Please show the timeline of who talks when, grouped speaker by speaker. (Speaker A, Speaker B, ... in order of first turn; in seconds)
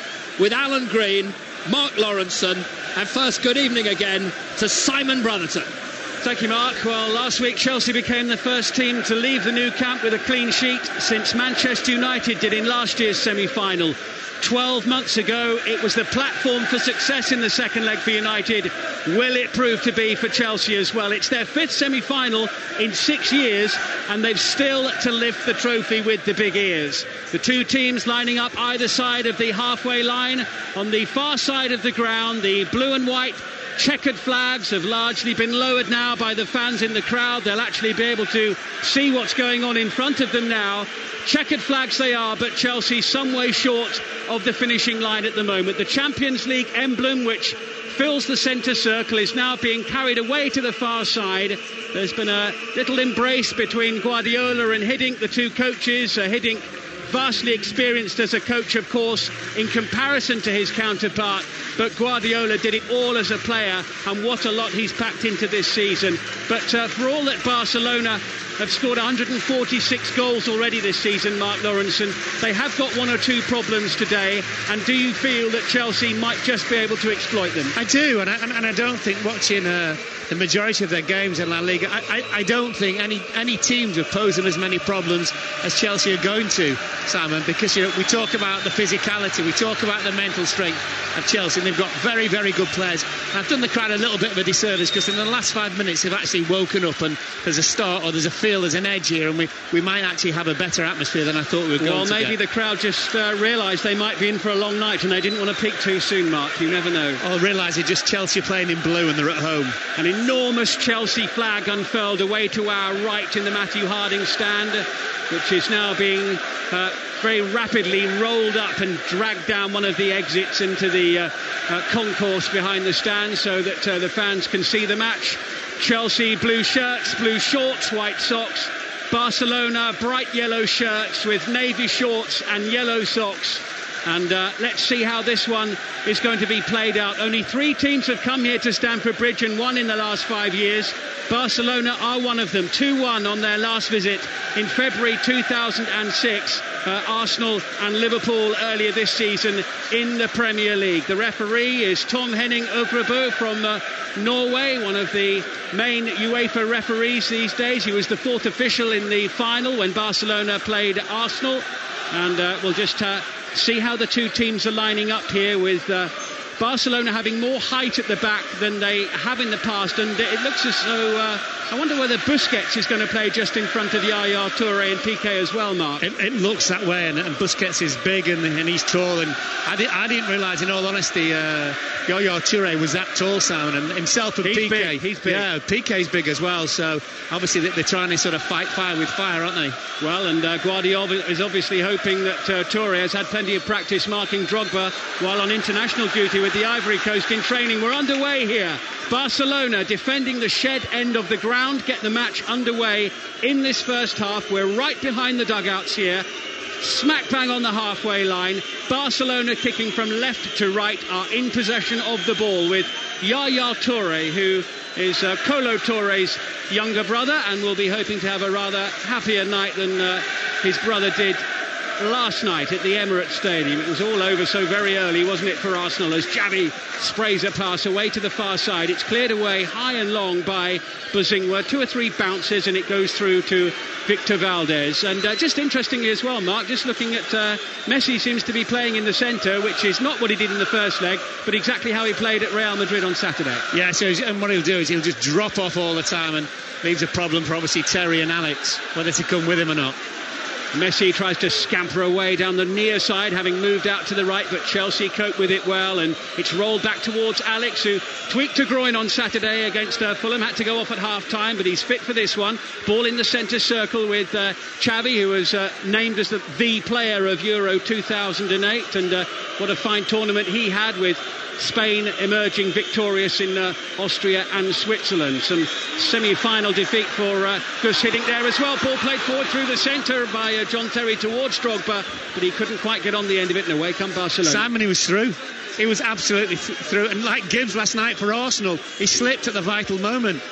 Speaker A: 0.4-5.7
Speaker B: 6.2-77.8, 101.8-107.2, 110.0-176.0, 184.4-185.5, 190.0-206.2, 206.8-221.4, 222.0-243.7, 250.7-284.6
Speaker C: 77.7-102.3, 107.2-109.8, 176.0-189.8, 243.7-250.0, 284.4-290.4